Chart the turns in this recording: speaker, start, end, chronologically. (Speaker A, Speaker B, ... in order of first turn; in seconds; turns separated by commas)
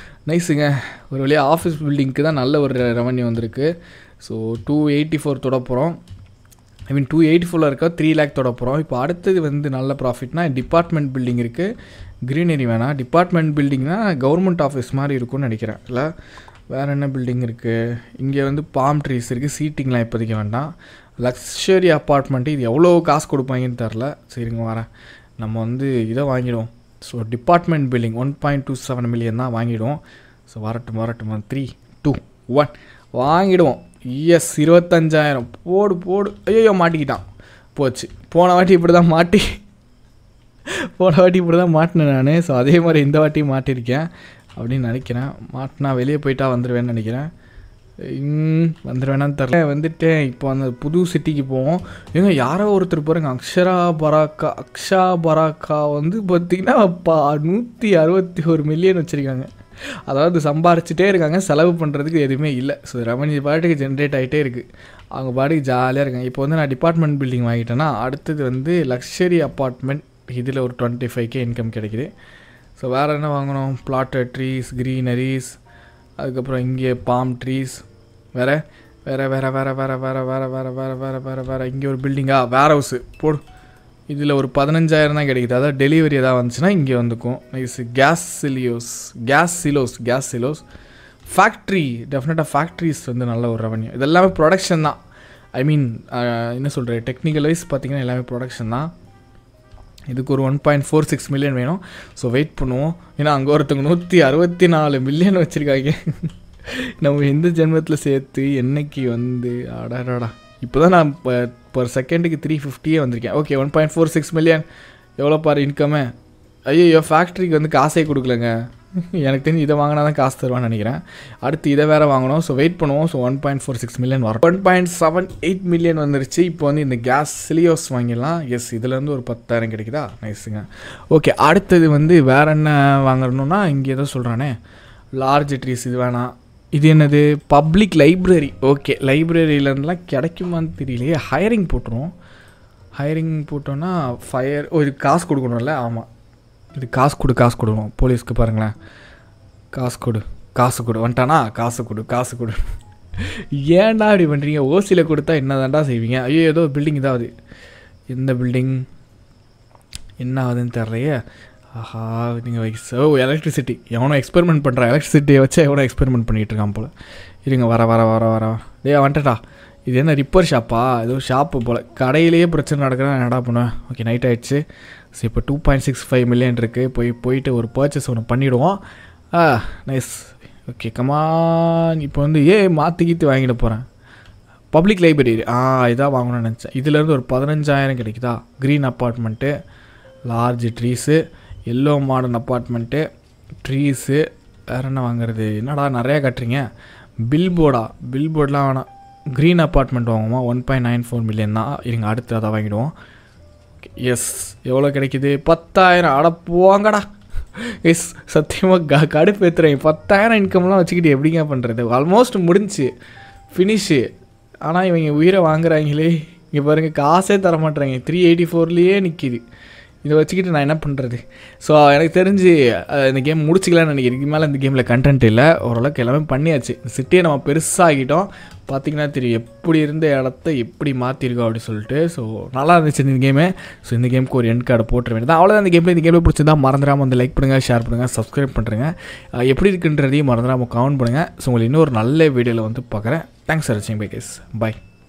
Speaker A: 0.3-6.0, Speaker A: 6.9-11.7, Speaker A: 12.3-16.1, Speaker A: 16.7-24.9, Speaker A: 25.4-37.2, Speaker A: 37.8-39.5, Speaker A: 41.0-47.3, Speaker A: 48.0-59.5, Speaker A: 60.1-72.1, Speaker A: 72.8-75.6, Speaker A: 76.2-77.8, Speaker A: 78.3-83.4, Speaker A: 84.1-90.6, Speaker A: 91.3-95.0, Speaker A: 95.6-98.9, Speaker A: 100.1-106.3, Speaker A: 107.0-114.6, Speaker A: 115.2-116.1, Speaker A: 116.7-118.5, Speaker A: 119.1-134.5, Speaker A: 135.2-142.1, Speaker A: 143.0-146.1, Speaker A: 146.7-148.7, Speaker A: 149.7-152.6, Speaker A: 153.2-157.3, Speaker A: 158.1-158.8, Speaker A: 160.2-161.2, Speaker A: 161.7-166.9, Speaker A: 167.4-174.6, Speaker A: 175.1-178.8, Speaker A: 179.3-183.8, Speaker A: 184.7-189.5, Speaker A: 190.3-193.0, Speaker A: 193.6-196.6, Speaker A: 197.3-202.9, Speaker A: 203.8-207.1, Speaker A: 207.7-212.9, Speaker A: 213.5-214.0, Speaker A: 214.6-219.4, Speaker A: 220.0-244.8